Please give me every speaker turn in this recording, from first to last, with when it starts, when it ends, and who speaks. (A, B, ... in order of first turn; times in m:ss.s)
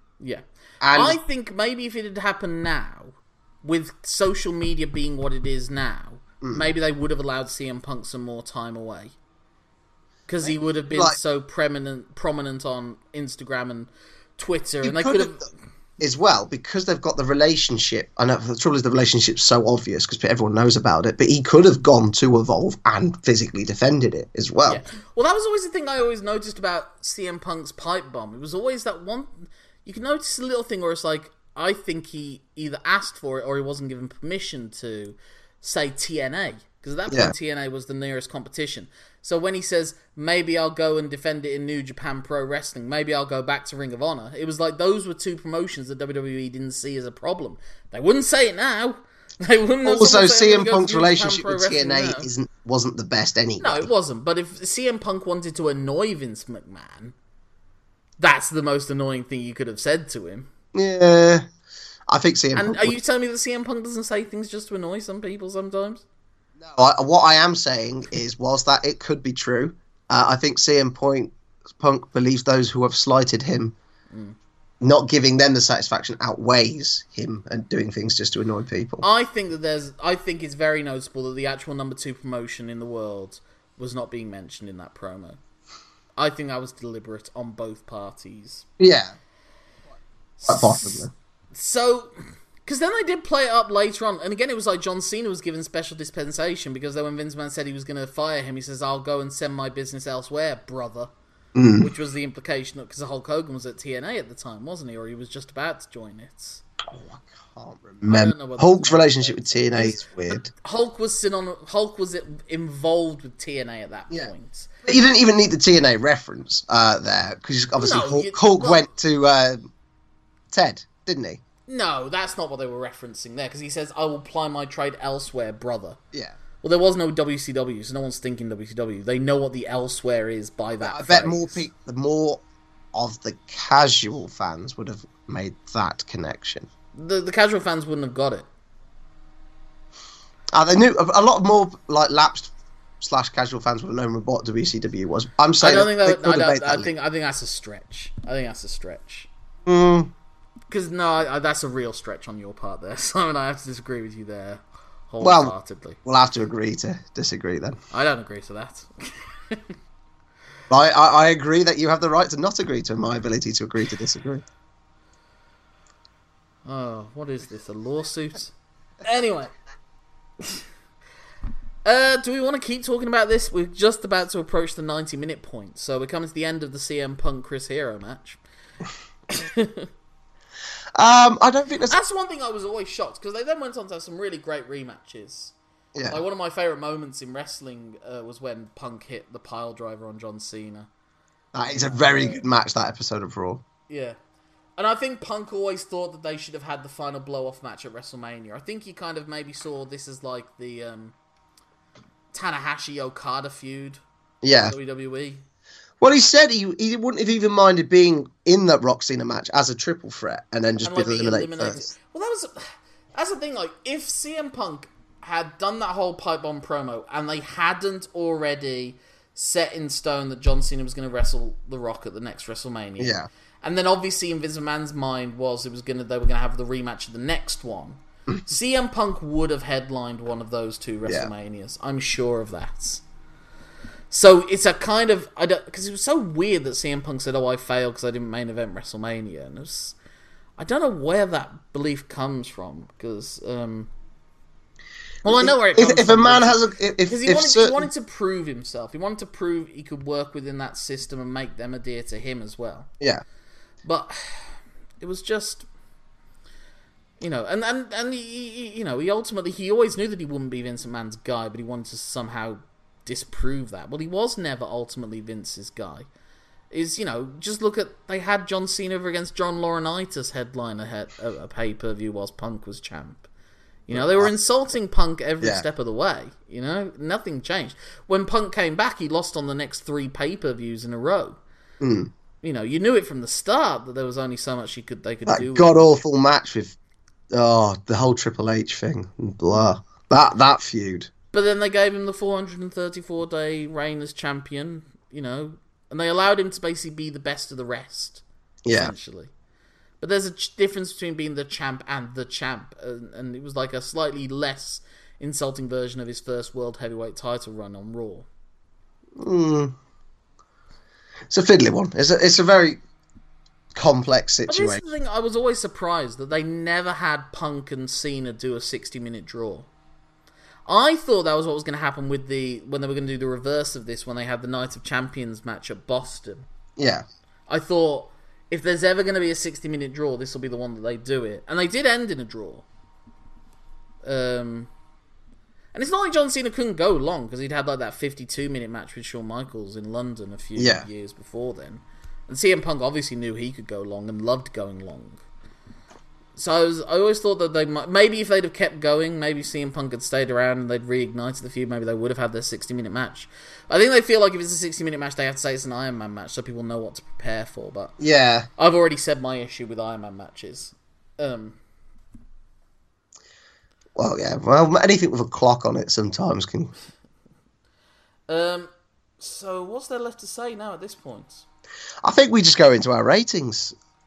0:00.2-0:09.1 A
0:00.8-0:01.2 B
0:06.4-0:06.7 B
0:10.3-0:15.5 A
0:10.4-0:11.2 B
0:14.8-0:15.5 B
0:16.0-0:24.8 B
0:24.6-0:52.3 A
0:37.1-0:37.3 B
0:49.8-0:53.9 B
0:53.6-0:57.1 A
0:58.2-1:00.5 A
1:00.7-1:01.4 B
1:02.1-1:03.0 B
1:02.5-1:06.0 A
1:06.6-1:13.8 B
1:14.1-1:14.4 A
1:14.8-1:19.0 B
1:19.0-1:25.4 A
1:26.2-1:28.7 A
1:28.8-1:29.2 B
1:30.4-1:41.1 A
1:30.4-1:31.1 B
1:41.5-1:41.9 B
1:41.8-1:46.6 A
1:46.9-1:50.5 B
1:48.1-1:54.7 A
1:54.8-1:59.6 B
1:57.8-1:58.9 A
2:00.5-2:01.4 B
2:01.7-2:06.0 A
2:06.6-2:11.6 A
2:10.8-2:12.4 B
2:12.9-2:16.7 B
2:16.9-2:18.4 A
2:20.5-2:26.9 B
2:25.6-2:29.3 A
2:29.6-2:30.1 B
2:30.7-2:36.0 A
2:35.2-2:35.5 B
2:36.0-2:37.8 B
2:37.9-2:39.6 A
2:40.7-2:44.4 B
2:46.6-2:49.5 A
2:51.8-2:58.4 A
2:59.3-2:59.9 A
3:01.0-3:02.0 B
3:01.9-3:05.5 A
3:05.9-3:06.2 B
3:06.1-3:10.9 A
3:11.5-3:13.6 B
3:11.7-3:12.4 A
3:13.9-3:14.2 A
3:14.8-3:21.2 A
3:22.3-3:24.0 A
3:24.4-3:24.7 B
3:24.6-3:25.4 A
3:26.0-3:31.9 B
3:30.8-3:53.0 A
3:43.0-3:43.3 B
3:51.0-3:51.3 B
3:54.1-4:00.0 A
4:00.6-4:03.9 A
4:05.2-4:12.9 A
4:05.3-4:07.9 B
4:13.8-4:15.7 A
4:17.2-4:26.1 A
4:26.7-4:33.3 A
4:33.9-4:41.4 A
4:33.9-4:34.3 B
4:41.8-4:42.1 B
4:42.4-4:45.8 A
4:45.3-4:46.8 B
4:47.3-4:51.1 B
4:51.3-4:59.3 A
4:58.6-4:58.9 B
5:00.0-5:08.3 A
5:09.2-5:09.7 B
5:11.3-5:12.8 B
5:13.7-5:14.8 B
5:14.5-5:19.7 A
5:20.7-5:26.5 A
5:26.8-5:27.0 B
5:27.5-5:32.6 A
5:34.0-5:34.7 A
5:35.7-5:45.2 A
5:40.6-5:40.9 B
5:46.4-5:58.0 A
5:58.0-5:58.5 B
5:58.6-6:01.6 A
6:04.0-6:06.7 B
6:08.3-6:11.4 A
6:12.0-6:13.8 B